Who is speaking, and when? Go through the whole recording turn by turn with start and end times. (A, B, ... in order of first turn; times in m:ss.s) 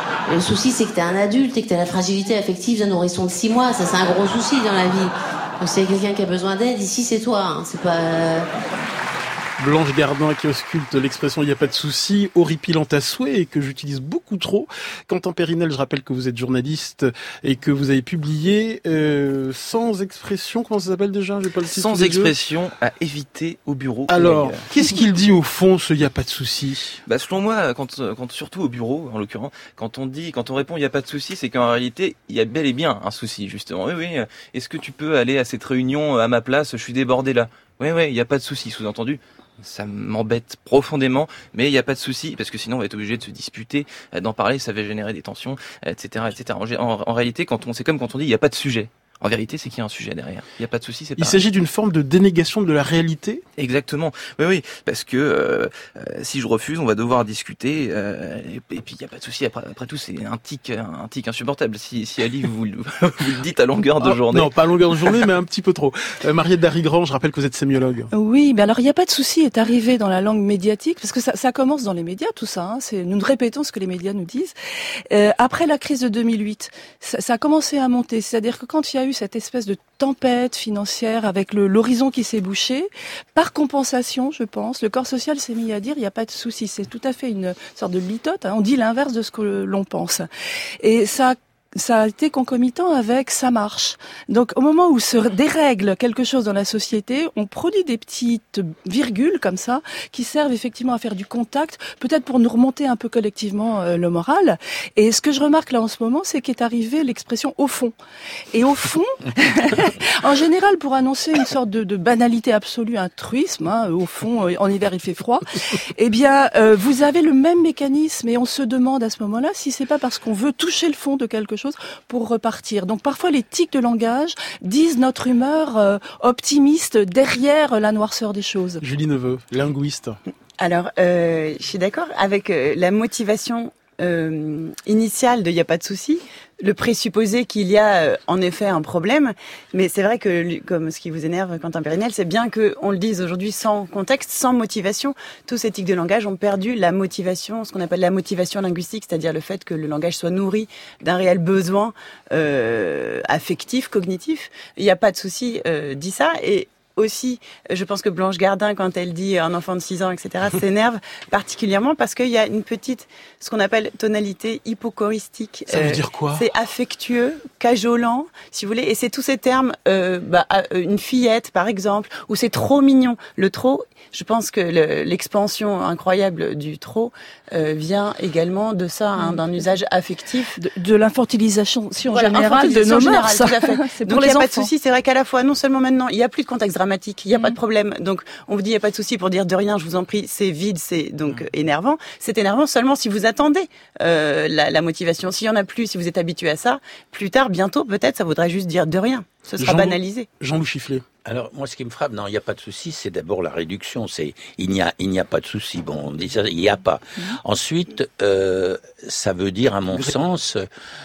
0:00.3-0:08.5 A
0:09.6-0:22.3 B
0:21.7-0:25.0 C
0:24.1-0:27.0 B
0:27.1-0:51.4 C
0:51.2-0:53.4 B
0:53.6-1:04.5 C
1:04.0-1:08.1 B
1:08.1-1:14.5 D
1:15.1-1:30.3 D
1:30.8-1:47.9 D
1:48.5-2:08.8 D
2:08.8-2:10.2 B
2:10.6-3:00.6 E
2:45.7-2:46.4 B
3:00.6-3:04.7 D
3:02.1-3:20.3 E
3:19.6-3:21.0 B
3:21.2-3:30.7 F